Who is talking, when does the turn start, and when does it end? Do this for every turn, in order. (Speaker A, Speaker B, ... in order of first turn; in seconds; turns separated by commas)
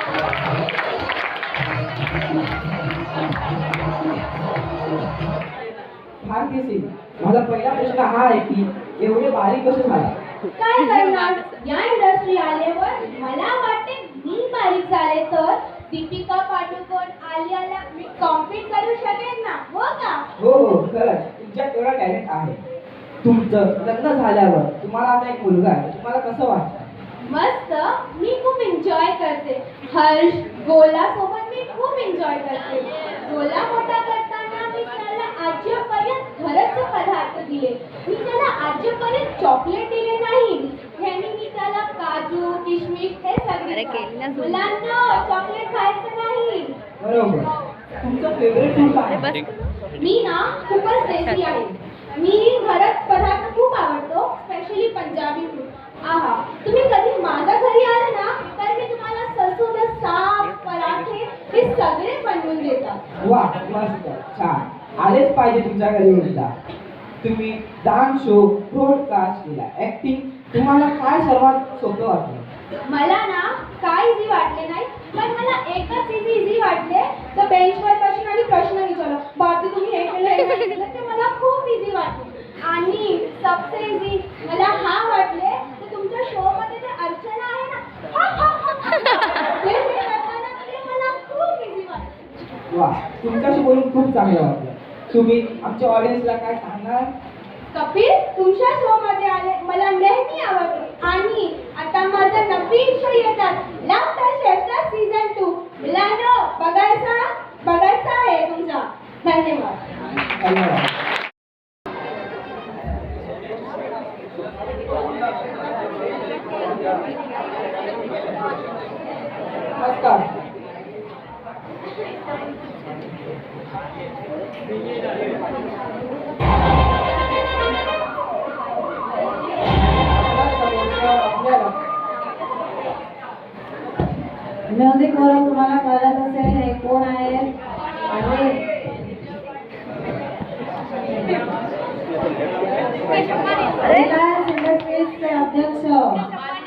Speaker A: 6.2-10.1, Speaker B: 10.5-20.2, Speaker A: 20.4-22.6, Speaker A: 23.2-26.9, Speaker B: 27.2-46.8, Speaker A: 47.0-47.5, Speaker A: 48.0-49.3, Speaker B: 50.0-63.0, Speaker A: 63.2-66.5, Speaker A: 67.2-72.5, Speaker B: 72.8-92.1, Speaker A: 92.7-97.1, Speaker B: 97.7-109.8, Speaker A: 110.4-110.9, Speaker A: 119.8-120.2, Speaker A: 130.1-131.7, Speaker C: 134.7-137.5, Speaker C: 138.1-138.6, Speaker C: 143.7-146.2